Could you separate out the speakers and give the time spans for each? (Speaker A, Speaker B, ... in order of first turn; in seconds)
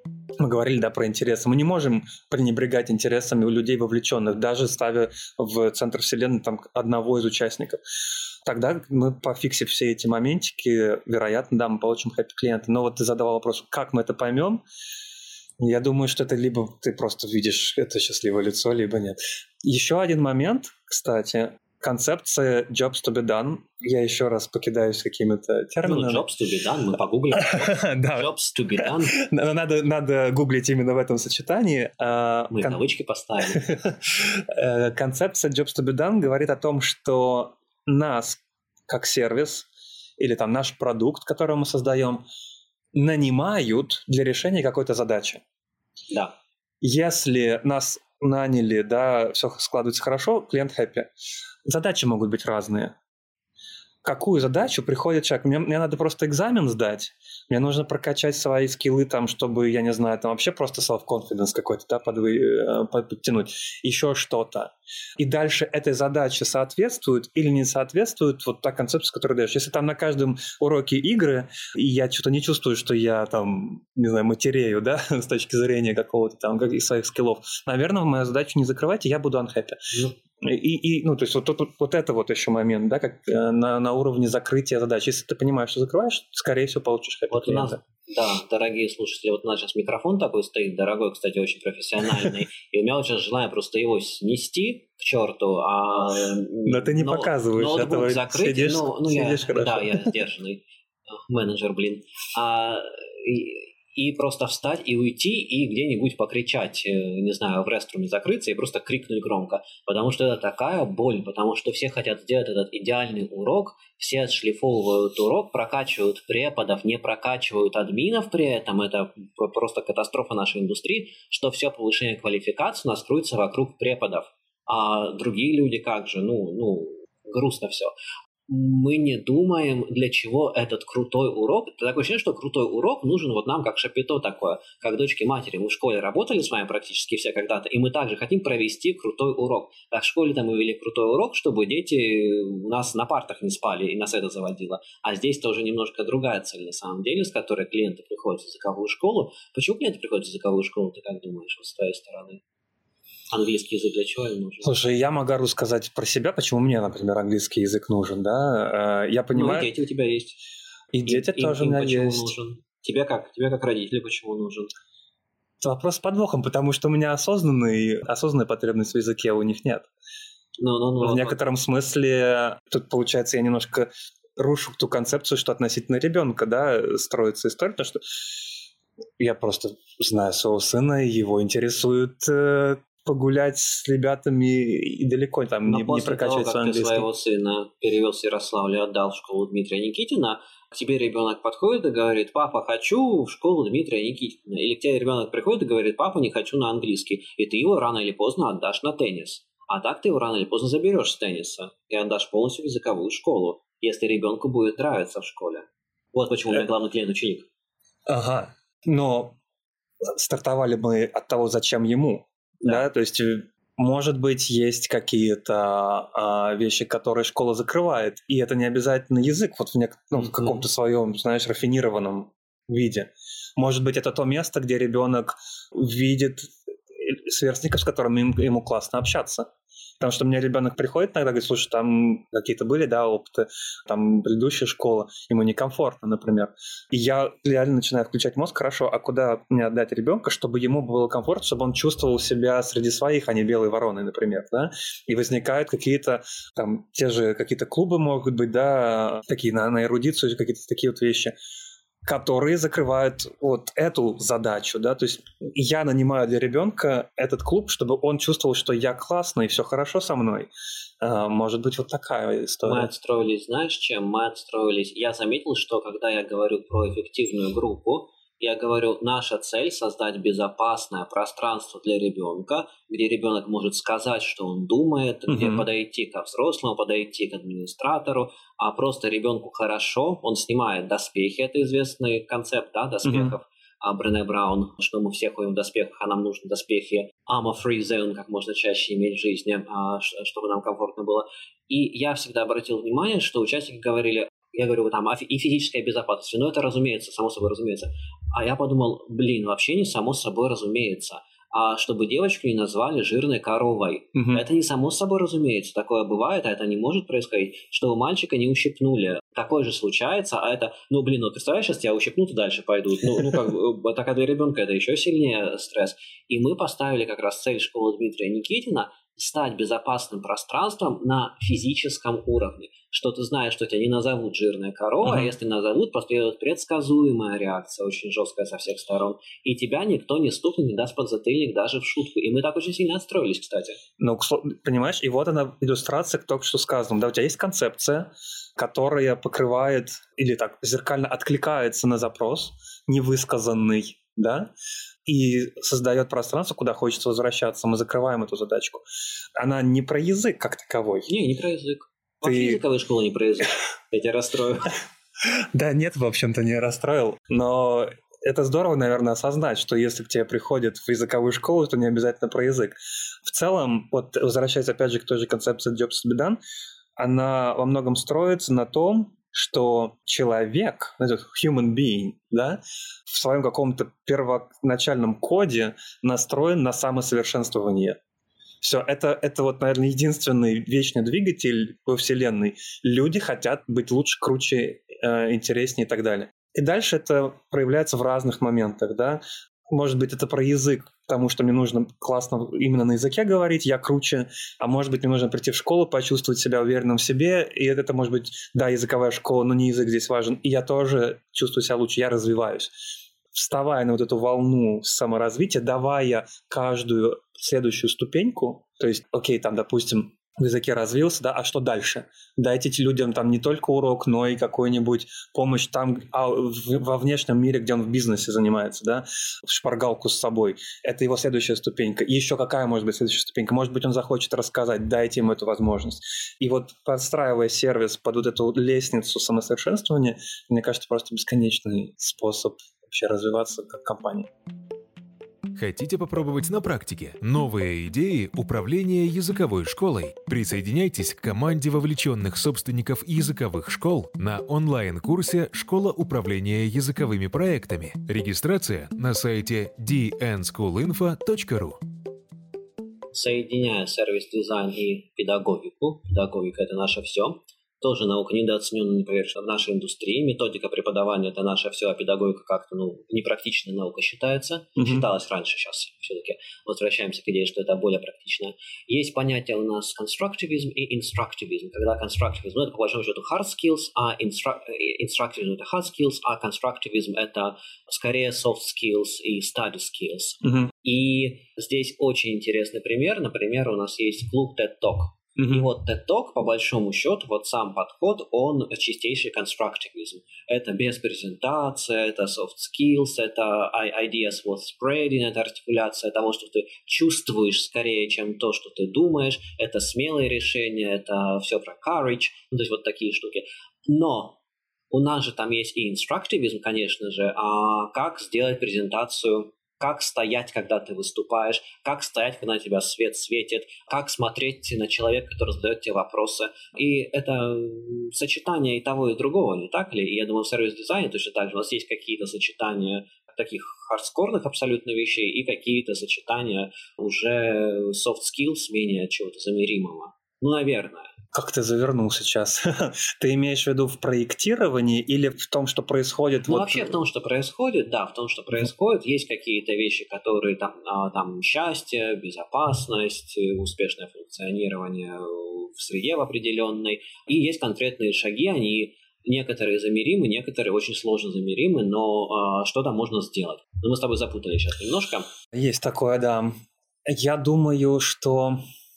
Speaker A: 0.4-7.8, 8.4-14.6, 15.6-26.2, 27.4-28.3, 28.9-32.8, 33.5-39.7, 40.2-42.2, 42.9-45.4, 46.8-51.1, 51.7-52.9, 54.0-79.8, 80.4-87.8, 96.7-100.1, 154.6-159.7, 160.9-162.3, 165.6-169.9, 171.0-178.0, 179.2-187.1, 208.1-209.4, 210.2-226.5, 227.0-229.5, 230.0-251.3, 252.0-260.5, 261.0-262.9, 275.3-275.6, 283.0-283.3, 304.1-304.4, 325.0-325.3, 334.0-344.5, 345.1-348.8, 349.4-351.1, 352.2-352.6, 355.5-366.4, 367.0-378.0, 378.6-402.7, 403.3-434.3, 464.8-465.1, 480.4-480.7, 485.4-485.7, 531.3-537.0, 555.5-556.5, 557.0-558.6
Speaker B: 25.8-29.2, 32.5-33.6, 87.3-100.6, 101.2-127.9, 128.5-152.4, 153.3-154.8, 159.3-160.4, 161.0-164.7, 170.6-171.4, 185.6-207.5, 212.6-212.9, 220.2-220.6, 262.6-333.8, 351.1-354.8, 453.1-504.4, 504.9-531.1, 536.5-555.3
Speaker C: 435.5-451.8